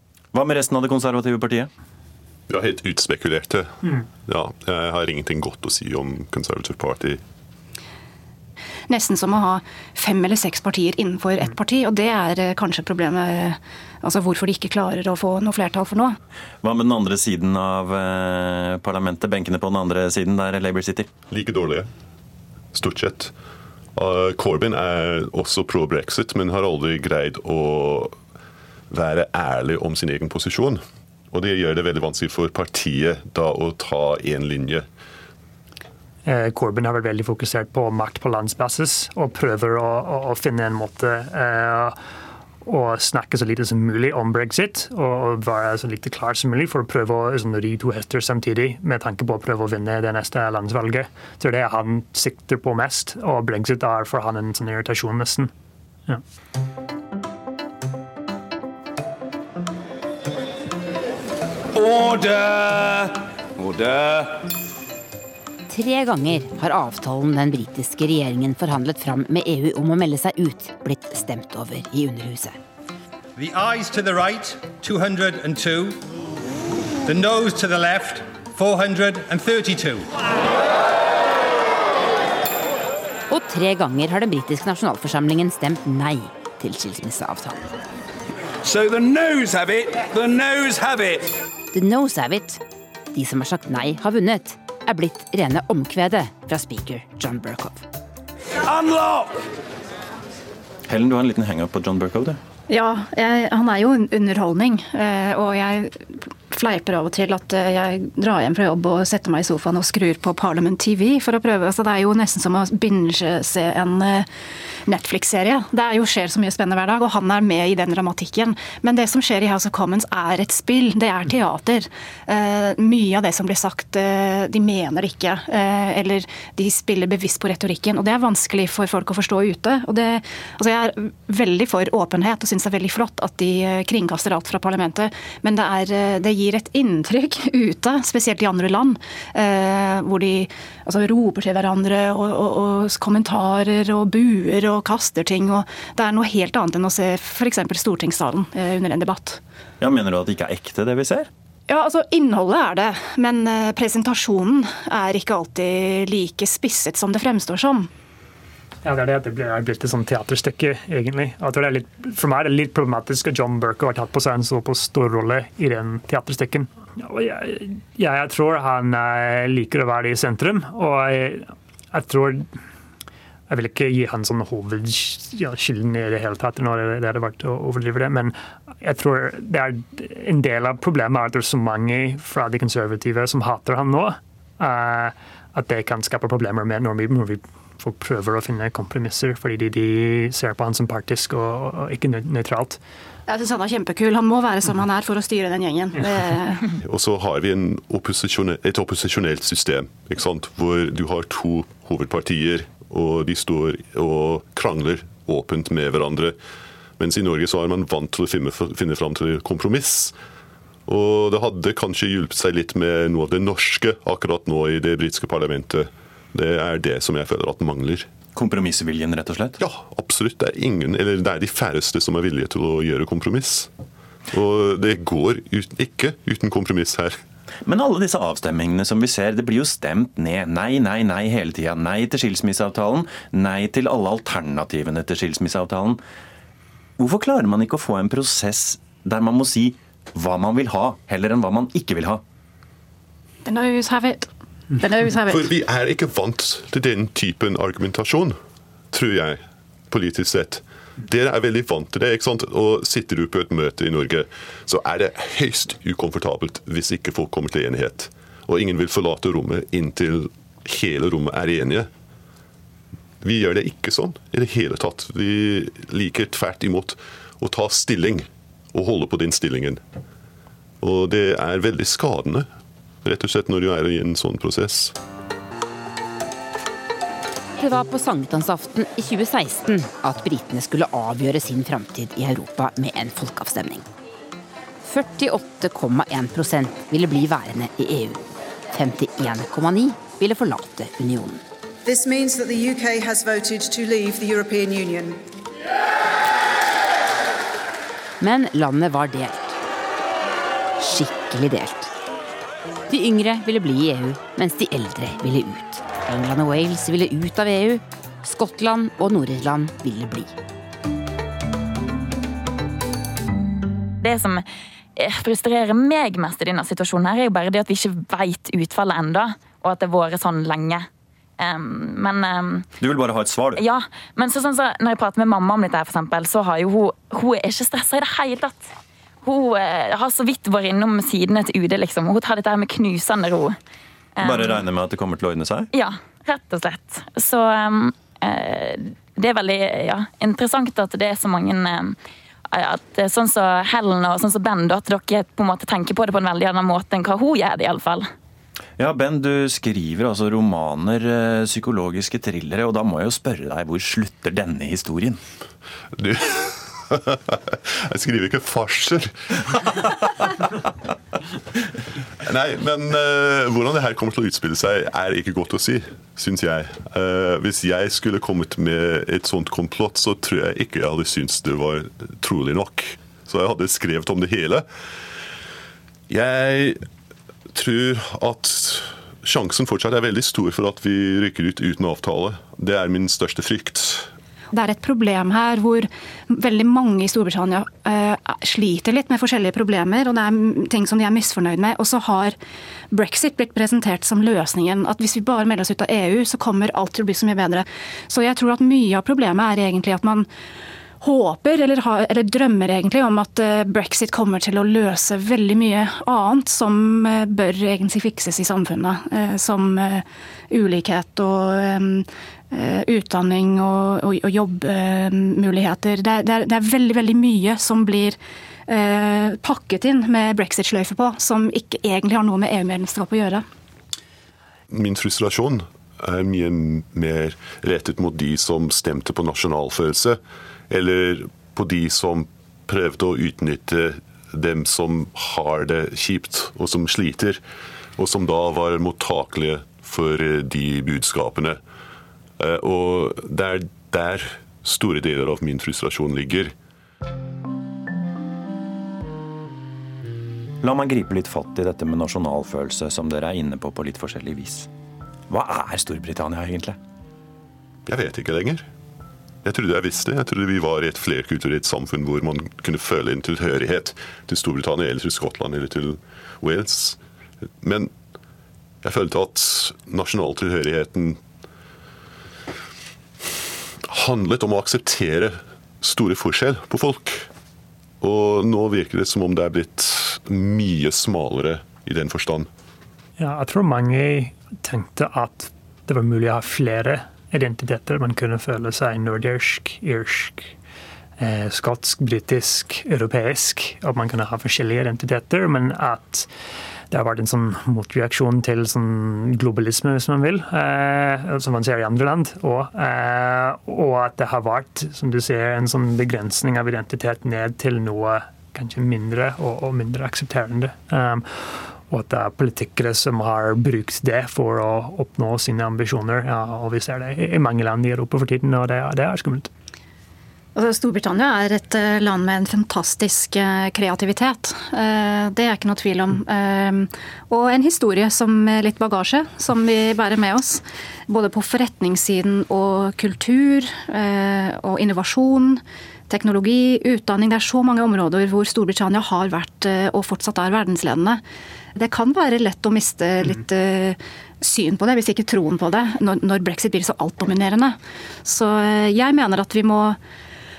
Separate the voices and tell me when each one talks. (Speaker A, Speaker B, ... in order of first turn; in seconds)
Speaker A: 0.3-1.7, 16.6-21.1, 100.9-102.4, 149.8-151.3, 218.3-219.6, 227.7-236.0, 237.0-242.2, 322.8-323.6, 334.2-335.7, 348.8-355.2, 450.6-454.7, 455.3-456.8
Speaker B: 2.5-7.2, 21.3-21.9, 22.7-23.3, 23.9-28.1, 28.9-30.8, 31.3-34.9, 196.8-206.3, 207.0-210.1, 210.9-218.1, 219.6-223.7, 224.3-227.2, 245.3-248.3, 248.9-249.4, 249.9-261.9, 263.2-269.8, 270.8-272.4, 273.0-274.9, 356.0-359.9, 362.2-374.7, 376.1-376.8, 377.5-384.1, 424.7-430.2, 430.7-437.4, 438.0-441.6, 442.4-446.5, 457.9-458.6, 459.4-467.0, 467.6-467.9, 468.8-471.2, 473.9-477.2, 478.0-482.5
Speaker C: 8.9-16.2, 102.7-114.3, 114.9-149.4, 151.7-157.9, 193.3-196.7, 243.4-245.5, 384.5-392.4, 392.9-400.3, 401.0-423.4, 520.5-541.2, 541.8-550.0
Speaker D: 36.2-42.0, 42.6-55.5, 158.8-172.5, 173.5-192.8, 483.2-490.5, 491.2-496.3, 496.9-519.5
Speaker E: 61.7-64.4, 73.3-76.0, 77.0-80.1, 88.6-91.3, 98.6-99.3
Speaker F: 65.7-72.6, 83.3-87.6, 91.7-92.6, 93.1-97.9, 277.6-283.9, 284.8-291.4, 298.2-299.6, 300.8-301.9, 302.9-310.3
Speaker G: 291.8-295.2
Speaker H: 314.0-314.4, 314.9-320.9, 321.4-322.7, 323.5-333.6, 334.2-334.7, 335.7-342.0, 342.5-348.1